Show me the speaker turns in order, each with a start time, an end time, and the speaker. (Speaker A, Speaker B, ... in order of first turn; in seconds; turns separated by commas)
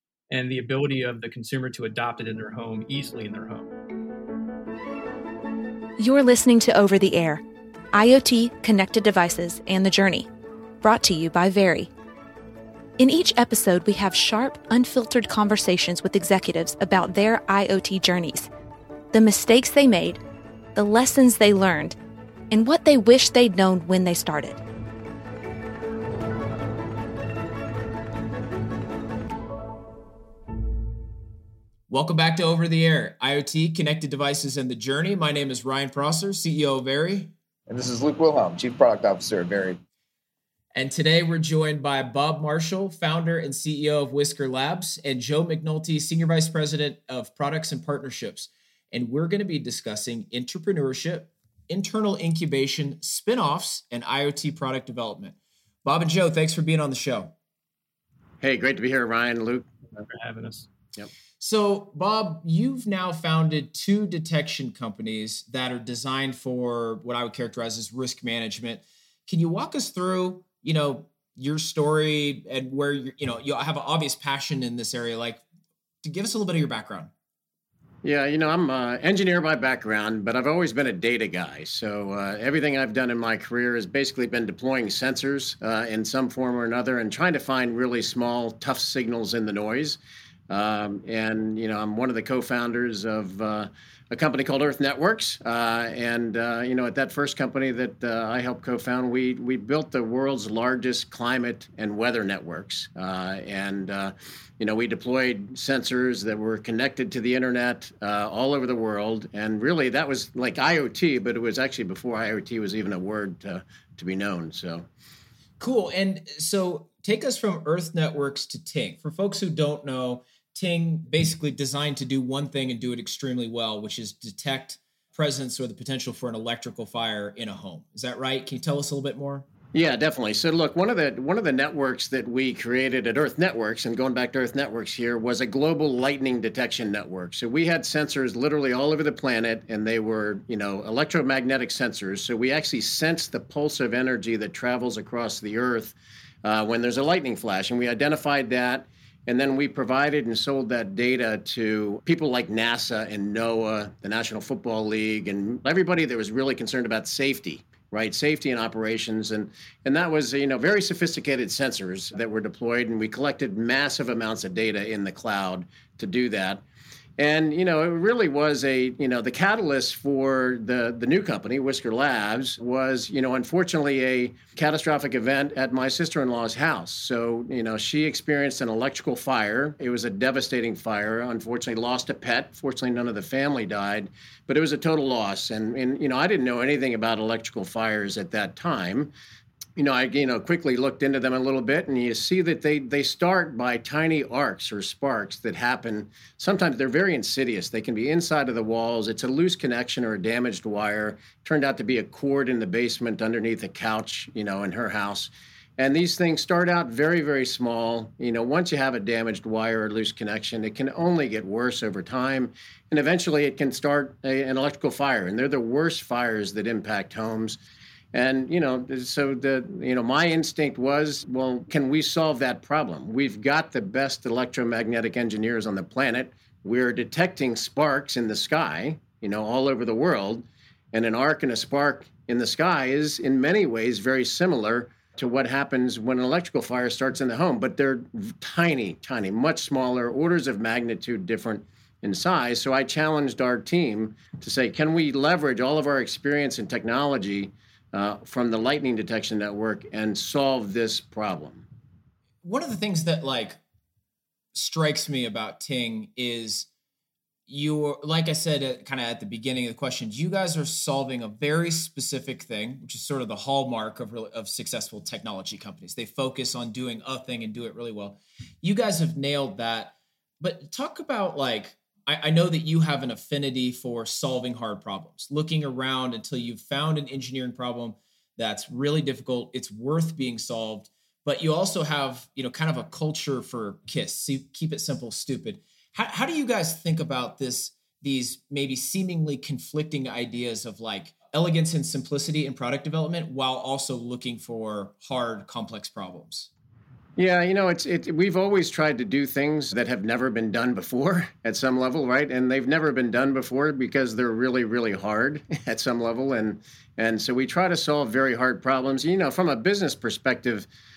Speaker A: 0.3-3.7, Speaker B: 6.0-7.4, Speaker B: 7.9-10.3, Speaker B: 10.8-11.9, Speaker B: 13.0-18.5, Speaker B: 19.1-20.2, Speaker B: 20.8-22.0, Speaker B: 22.5-24.6, Speaker C: 31.9-37.3, Speaker D: 37.7-39.8, Speaker C: 40.7-57.3, Speaker E: 58.4-59.7, Speaker A: 60.0-60.7, Speaker C: 61.4-75.4, Speaker C: 76.0-77.1, Speaker E: 78.0-114.9, Speaker C: 115.6-129.4, Speaker E: 129.7-166.6, Speaker E: 167.2-189.1, Speaker E: 189.8-217.6, Speaker E: 218.1-251.7, Speaker C: 252.4-253.6, Speaker C: 254.5-256.7, Speaker C: 257.5-296.5, Speaker E: 297.2-310.7